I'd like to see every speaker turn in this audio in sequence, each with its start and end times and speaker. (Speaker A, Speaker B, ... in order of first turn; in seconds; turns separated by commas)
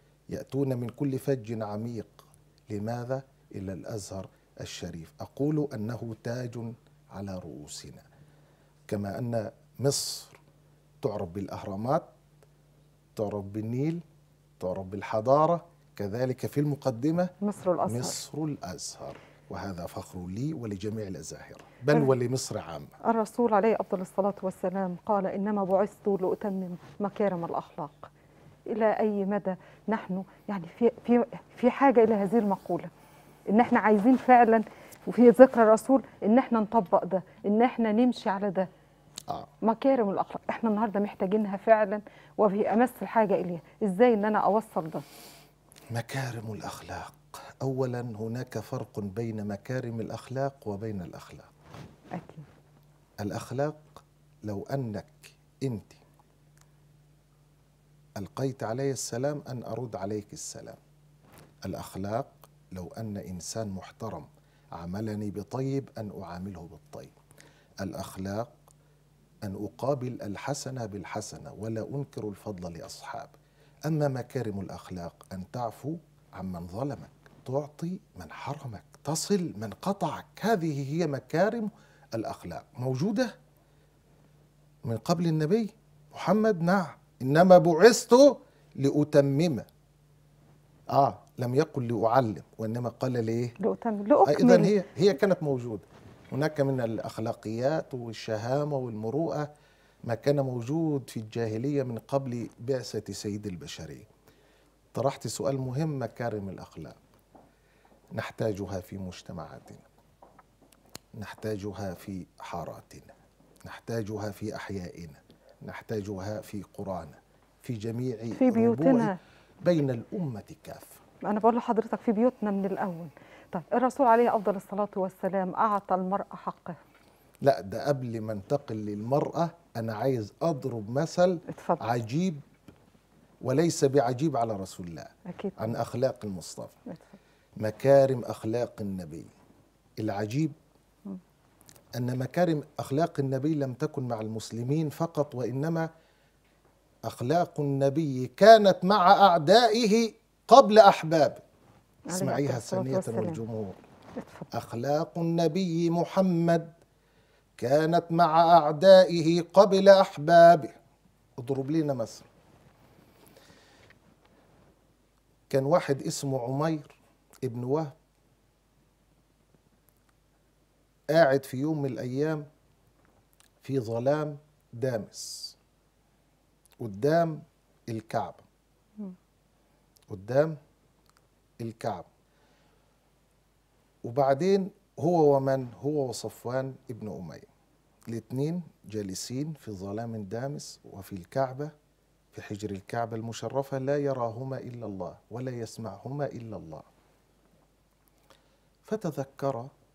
Speaker A: 0.3-8.1, Speaker A: 8.9-10.4, Speaker A: 11.0-12.1, Speaker A: 13.2-14.0, Speaker A: 14.6-17.3, Speaker B: 17.4-18.2, Speaker A: 17.9-22.9, Speaker B: 23.0-28.1, Speaker B: 28.7-32.9, Speaker B: 33.5-38.7, Speaker B: 39.6-45.0, Speaker A: 45.9-51.5, Speaker B: 52.1-52.5, Speaker A: 53.2-56.0, Speaker A: 58.2-60.8, Speaker A: 61.7-67.2, Speaker A: 67.8-68.5, Speaker A: 69.4-73.3, Speaker A: 73.9-83.3, Speaker A: 84.9-89.7, Speaker A: 90.9-93.6, Speaker B: 93.6-94.7, Speaker A: 94.3-99.5, Speaker A: 100.1-104.1, Speaker A: 104.9-107.0, Speaker A: 108.2-109.8, Speaker A: 111.2-113.1, Speaker A: 113.7-119.1, Speaker B: 118.4-119.1, Speaker A: 119.6-121.0, Speaker B: 121.3-126.8, Speaker A: 127.4-132.4, Speaker B: 131.5-131.8, Speaker A: 133.4-136.8, Speaker B: 135.3-135.7, Speaker B: 136.9-137.2, Speaker A: 137.6-139.3, Speaker A: 140.0-140.6, Speaker A: 142.0-145.9, Speaker A: 147.1-151.4, Speaker B: 152.1-153.4, Speaker A: 152.1-153.8, Speaker B: 154.2-154.5, Speaker A: 154.5-156.7, Speaker A: 157.6-160.8, Speaker A: 161.4-162.3, Speaker A: 165.5-167.9, Speaker A: 171.1-172.4, Speaker A: 173.6-175.6, Speaker A: 176.8-178.4, Speaker A: 180.1-180.6, Speaker A: 181.6-182.1, Speaker A: 184.1-187.5, Speaker A: 188.1-191.7, Speaker A: 192.3-196.8, Speaker A: 198.8-199.7